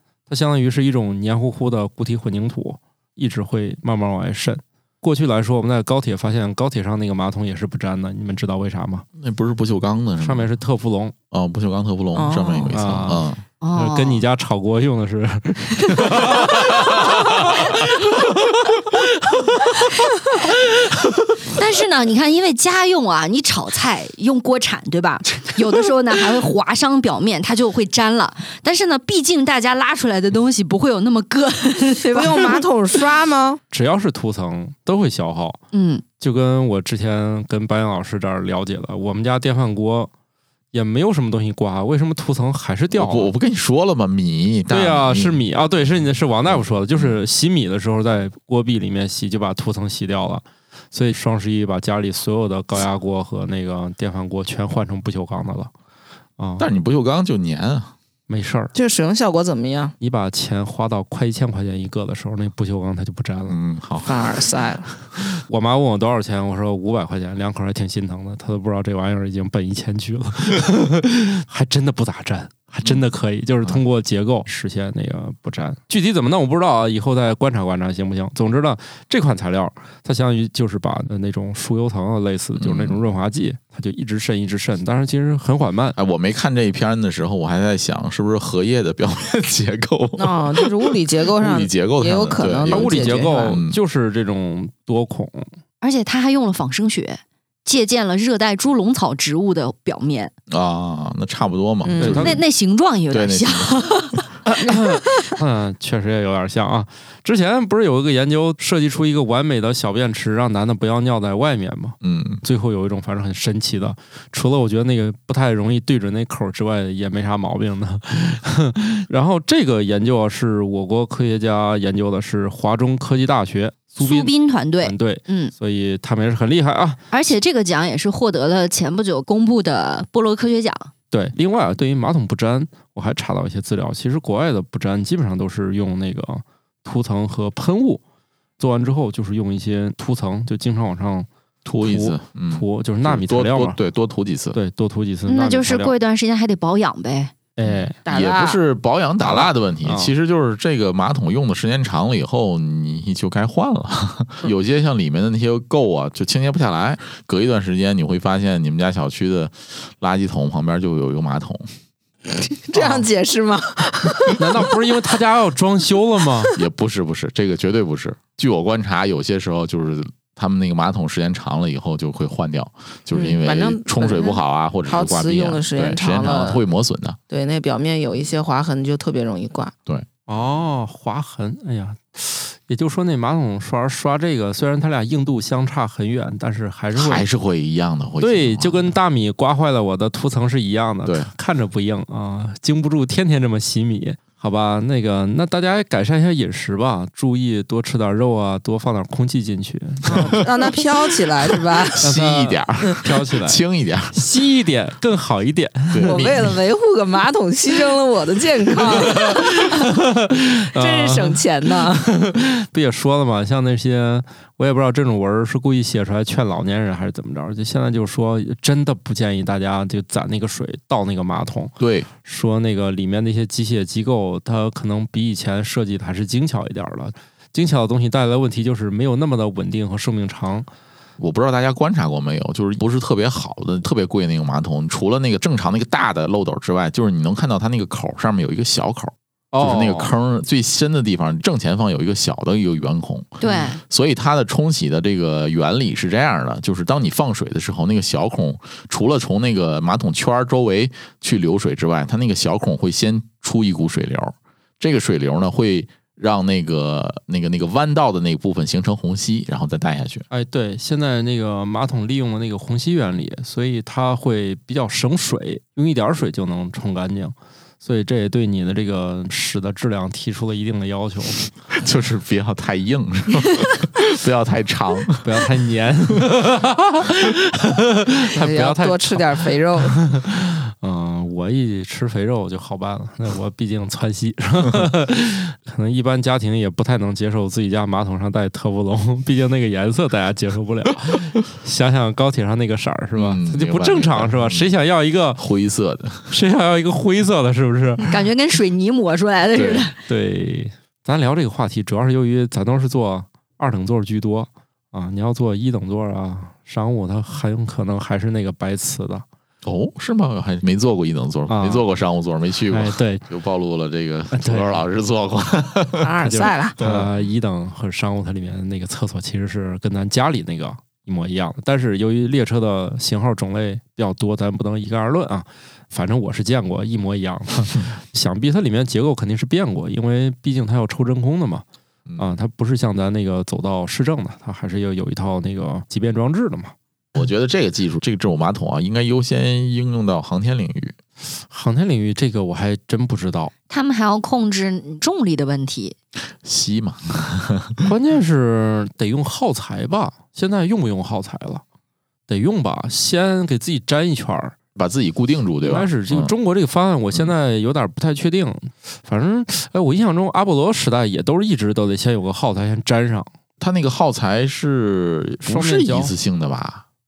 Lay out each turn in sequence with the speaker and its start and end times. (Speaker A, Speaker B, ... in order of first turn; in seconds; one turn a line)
Speaker A: 0.3-9.1
Speaker B: 9.2-10.5
Speaker A: 10.2-11.1
Speaker B: 11.3-13.4
Speaker C: 12.2-12.8
Speaker A: 12.7-19.5
Speaker D: 13.6-14.2
Speaker D: 21.5-32.6
Speaker C: 32.1-33.6
Speaker A: 33.7-35.6
Speaker D: 35.7-36.0
Speaker A: 36.2-40.1
Speaker A: 40.7-43.3
Speaker B: 42.9-45.4
Speaker A: 44.7-55.7
Speaker B: 46.5-47.2
Speaker A: 56.4-56.7
Speaker B: 56.6-57.9
Speaker A: 58.3-58.7
Speaker C: 58.7-60.0
Speaker A: 60.0-63.6
Speaker B: 63.5-64.4
Speaker C: 64.0-64.9
Speaker A: 65.4-86.0
Speaker B: 82.6-83.0
Speaker B: 86.0-93.8
Speaker C: 90.2-93.6
Speaker A: 92.7-95.5
Speaker D: 95.8-100.3
Speaker B: 100.5-102.4
Speaker C: 101.8-102.3
Speaker A: 102.0-102.4
Speaker D: 102.2-104.2
Speaker B: 103.1-103.9
Speaker A: 104.5-127.0
Speaker B: 112.0-112.4
Speaker D: 124.0-125.5
Speaker D: 127.1-130.9
Speaker A: 131.1-138.0
Speaker A: 138.6-141.3
Speaker B: 141.7-144.6
Speaker A: 141.8-143.8
Speaker A: 144.5-145.9
Speaker D: 145.3-147.3
Speaker A: 147.6-148.0
Speaker B: 147.6-161.7
Speaker C: 148.1-148.6
Speaker A: 149.2-150.1
Speaker C: 162.7-164.4
Speaker A: 164.3-166.6
Speaker B: 166.6-177.2
Speaker C: 173.2-176.6
Speaker C: 177.3-179.7
Speaker A: 180.3-187.3
Speaker B: 186.9-188.9
Speaker A: 188.2-200.5
Speaker B: 191.1-191.3
Speaker C: 200.1-202.1
Speaker B: 201.8-204.2
Speaker A: 202.0-206.5
Speaker B: 205.9-206.5
Speaker C: 206.0-209.8
Speaker A: 209.1-211.4
Speaker C: 210.8-212.1
Speaker A: 211.9-230.7
Speaker B: 221.8-222.1
Speaker B: 231.2-260.2
Speaker A: 239.5-240.1
Speaker D: 243.4-243.8
Speaker A: 260.3-271.4
Speaker B: 271.7-275.3
Speaker A: 275.2-279.2
Speaker C: 278.3-280.0
Speaker A: 280.0-295.4
Speaker B: 293.1-294.7
Speaker B: 295.4-296.4
Speaker A: 296.3-298.1
Speaker D: 298.1-300.0
Speaker B: 299.6-299.9
Speaker A: 300.1-309.2
Speaker B: 309.6-316.1
Speaker A: 311.5-311.9
Speaker A: 312.7-313.3
Speaker A: 314.3-314.8
Speaker C: 316.0-316.8
Speaker A: 316.2-331.6
Speaker B: 316.8-317.1
Speaker B: 332.1-332.3
Speaker A: 332.2-336.7
Speaker B: 337.1-340.9
Speaker A: 341.5-343.5
Speaker D: 343.7-345.9
Speaker B: 346.4-347.9
Speaker A: 347.8-351.6
Speaker A: 352.3-354.6
Speaker B: 354.8-356.3
Speaker A: 355.6-363.3
Speaker B: 363.6-366.8
Speaker A: 365.4-366.1